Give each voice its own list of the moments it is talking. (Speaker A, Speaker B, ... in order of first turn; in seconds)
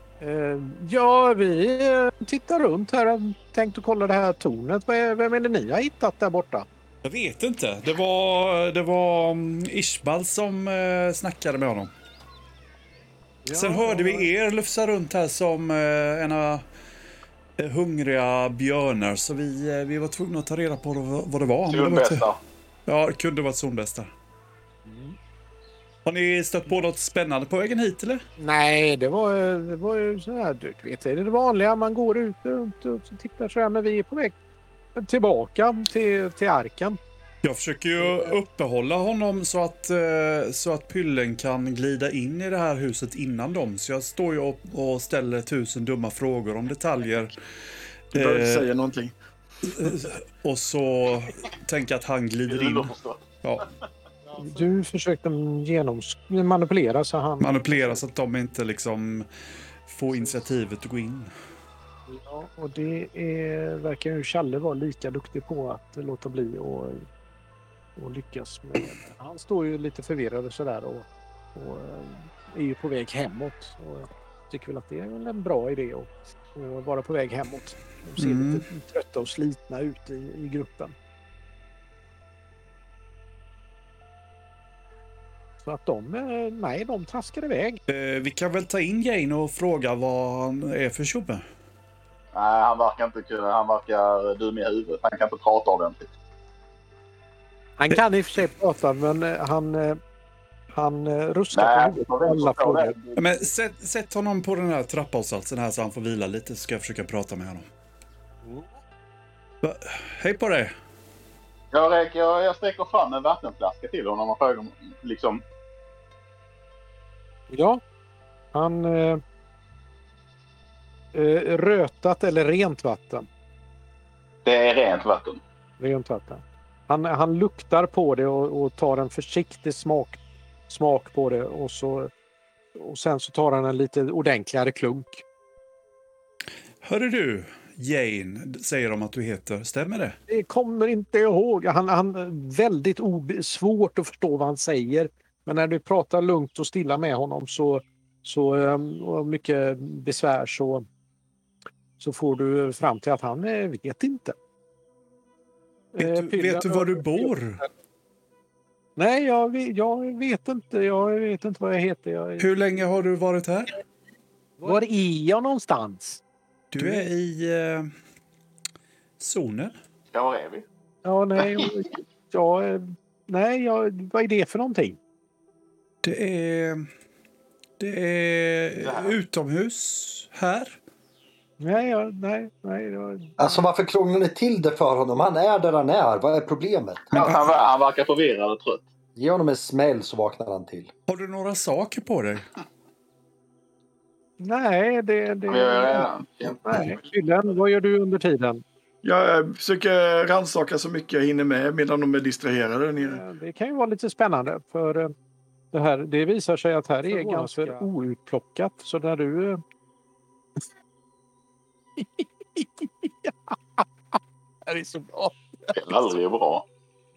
Speaker A: 0.2-6.7, 13.4-14.3, 24.9-25.2, 28.4-34.3, 34.9-37.0, 38.0-38.3, 54.4-58.0, 62.1-67.0, 68.0-80.9, 85.6-87.8, 97.8-100.0, 100.7-103.0, 108.4-108.7, 117.5-117.8, 118.5-119.2, 121.1-123.3, 125.8-132.1, 132.7-135.2, 140.3-150.8, 152.0-154.3, 155.9-157.7, 158.9-162.8, 164.6-166.2, 171.0-175.0, 181.6-183.5, 194.4-196.1, 196.6-198.6, 203.0-205.1, 205.7-209.6, 212.0-216.1
Speaker B: 7.0-11.9, 13.5-16.6, 17.6-22.3, 22.9-24.1, 26.0-28.2, 37.4-47.4, 48.1-48.7, 49.6-53.6, 57.4-59.3, 59.9-61.3, 78.2-78.7, 87.9-91.4, 103.2-107.7, 109.6-110.7, 136.8-140.2, 156.0-157.6, 162.4-163.7, 166.7-167.9, 169.2-169.8, 176.0-176.8, 177.8-180.8, 187.1-187.5, 191.1-192.4
Speaker C: 21.7-22.4, 52.5-53.3, 92.3-96.1, 101.5-103.4, 111.7-115.4, 124.4-125.4, 170.1-170.6, 178.8-179.1, 187.1-188.8, 195.5-196.6, 215.7-216.6
Speaker D: 48.1-49.1, 199.0-203.2
Speaker E: 183.4-187.1, 189.2-190.9